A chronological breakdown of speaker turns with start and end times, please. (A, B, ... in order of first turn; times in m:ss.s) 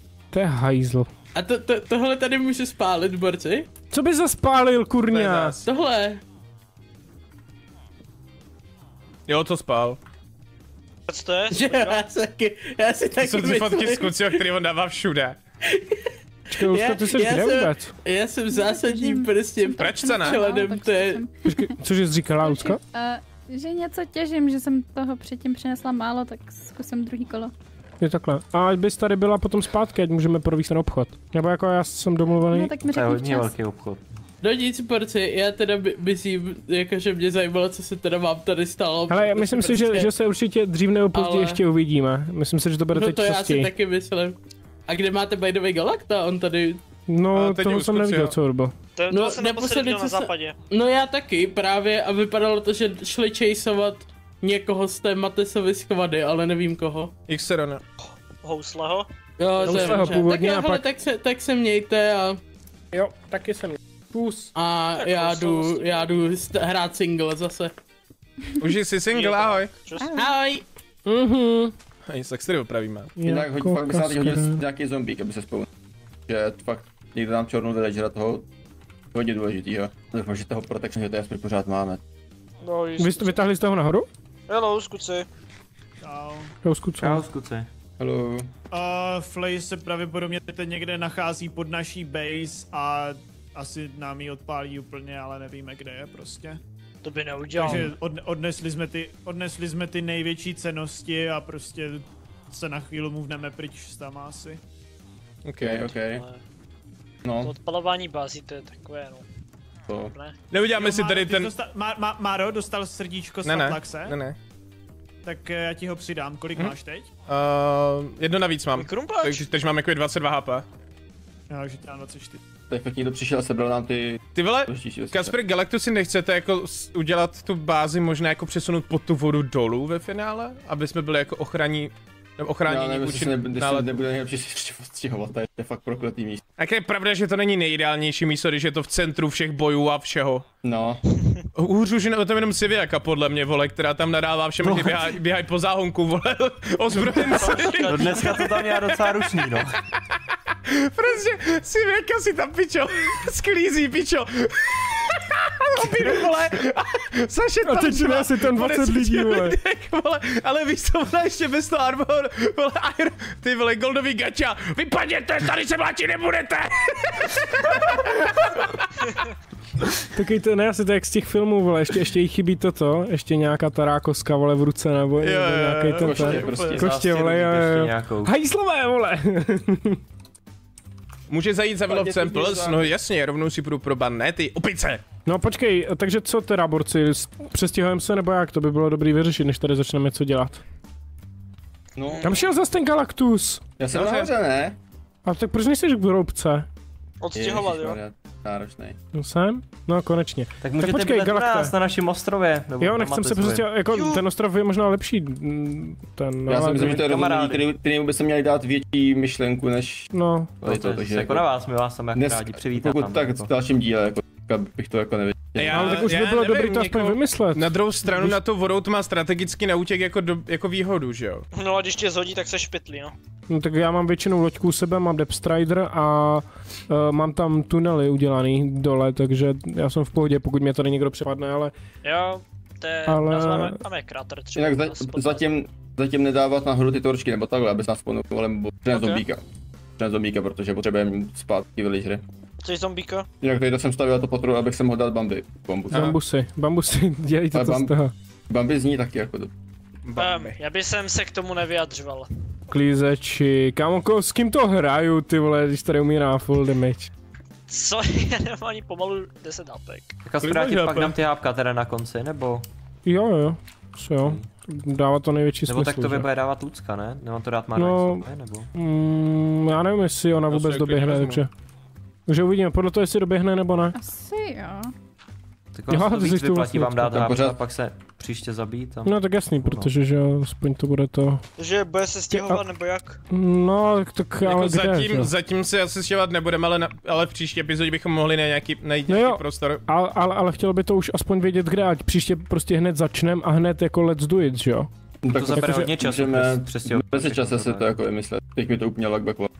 0:00.3-0:01.1 A
0:01.3-0:03.7 B
0:03.9-0:05.6 A
0:05.1-0:05.6 C
0:05.6-0:06.2 B
0:09.3-0:10.0 C
0:11.1-0:12.0 D
0:11.5-0:14.4 B
0:13.2-0:15.4 C
0:15.7-0:16.0 B
0:16.5-0:17.9 A
0:16.6-0:21.2 B
0:18.5-0:21.7 E
0:19.8-0:20.4 C
0:21.4-0:22.8 A
0:22.4-0:27.5 E
0:28.0-0:32.7 A
0:32.5-0:33.5 E
0:32.9-0:34.2 F
0:34.4-0:40.1 B
0:39.1-0:43.7 A
0:41.1-0:41.6 B
0:42.9-0:44.4 B
0:44.9-0:46.8 B
0:47.1-0:48.7 A
0:47.3-0:48.3 C
0:49.0-0:50.6 D
0:49.1-0:57.1 B
0:57.3-0:57.8 C
0:58.0-0:59.1 D
0:59.4-1:02.4 B
0:59.6-1:00.0 D
0:59.6-1:00.8 A
1:02.9-1:04.5 A
1:04.5-1:07.7 B
1:05.0-1:06.2 D
1:08.6-1:09.7 C
1:09.1-1:10.2 D
1:10.0-1:10.3 E
1:10.2-1:10.6 B
1:11.0-1:11.7 A
1:12.1-1:13.1 C
1:13.2-1:14.6 A
1:13.2-1:15.7 G
1:16.3-1:18.4 G
1:19.1-1:22.0 G
1:22.6-1:23.4 D
1:23.0-1:24.1 A
1:24.5-1:25.3 D
1:26.0-1:26.5 H
1:26.6-1:27.2 A
1:27.0-1:27.7 F
1:28.0-1:28.5 G
1:28.7-1:36.6 H
1:37.0-1:37.9 D
1:37.6-1:44.6 H
1:45.4-1:45.9 C
1:45.6-1:46.2 G
1:46.0-1:46.4 D
1:47.2-1:47.5 G
1:47.4-1:49.2 D
1:49.9-1:50.1 G
1:50.5-1:51.5 C
1:50.7-1:54.2 H
1:53.4-1:54.4 C
1:55.2-1:57.1 H
1:57.3-2:00.6 C
1:58.7-1:59.4 D
2:01.5-2:02.4 H
2:02.7-2:05.3 G
2:04.3-2:14.0 C
2:12.6-2:16.4 G
2:16.6-2:20.4 C
2:20.6-2:21.0 G
2:21.6-2:29.0 C
2:24.7-2:25.0 F
2:26.9-2:28.7 D
2:27.8-2:29.8 F
2:30.7-2:48.9 C
2:37.6-2:39.6 A
2:50.1-3:00.0 A
2:55.2-2:56.7 C
2:56.0-2:56.9 G
2:56.2-2:58.3 F
3:01.3-3:05.0 C
3:01.9-3:02.9 G
3:05.2-3:10.6 A
3:11.9-3:12.4 G
3:12.2-3:13.6 A
3:13.8-3:14.8 G
3:13.9-3:14.3 C
3:15.2-3:16.7 A
3:17.2-3:18.0 D
3:17.3-3:19.0 G
3:19.1-3:21.7 A
3:20.6-3:23.7 F
3:22.8-3:27.1 A
3:23.9-3:24.2 D
3:26.5-3:30.1 G
3:26.8-3:27.6 F
3:30.1-3:30.5 A
3:30.6-3:31.5 G
3:30.6-3:33.5 F
3:32.1-3:36.1 G
3:35.6-3:41.4 C
3:35.7-3:38.4 A
3:41.5-3:43.1 D
3:43.5-3:51.7 A
3:52.0-3:55.4 D
3:53.1-3:53.8 A
3:54.6-3:59.4 G
3:58.9-3:59.2 C
4:00.0-4:02.2 G
4:02.6-4:03.3 D
4:03.4-4:06.1 G
4:05.9-4:06.2 C
4:05.9-4:08.1 A
4:07.5-4:08.0 G
4:08.5-4:09.5 G
4:10.0-4:10.6 C
4:10.2-4:12.3 D
4:12.7-4:17.1 A
4:17.7-4:20.1 D
4:20.2-4:22.6 F
4:20.4-4:21.2 C
4:23.0-4:26.3 A
4:24.2-4:24.5 F
4:25.7-4:28.7 F
4:27.8-4:31.5 A
4:30.5-4:31.4 C
4:32.3-4:33.9 A
4:33.9-4:34.9 E
4:35.7-4:39.9 F
4:35.9-4:37.3 A
4:37.1-4:37.6 G
4:39.0-4:41.4 A
4:41.6-4:43.2 D
4:42.3-4:42.6 A
4:43.3-4:45.3 A
4:44.4-4:49.8 C
4:49.1-4:54.9 A
4:55.2-4:59.5 G
4:55.3-4:57.9 F
4:55.5-4:55.8 A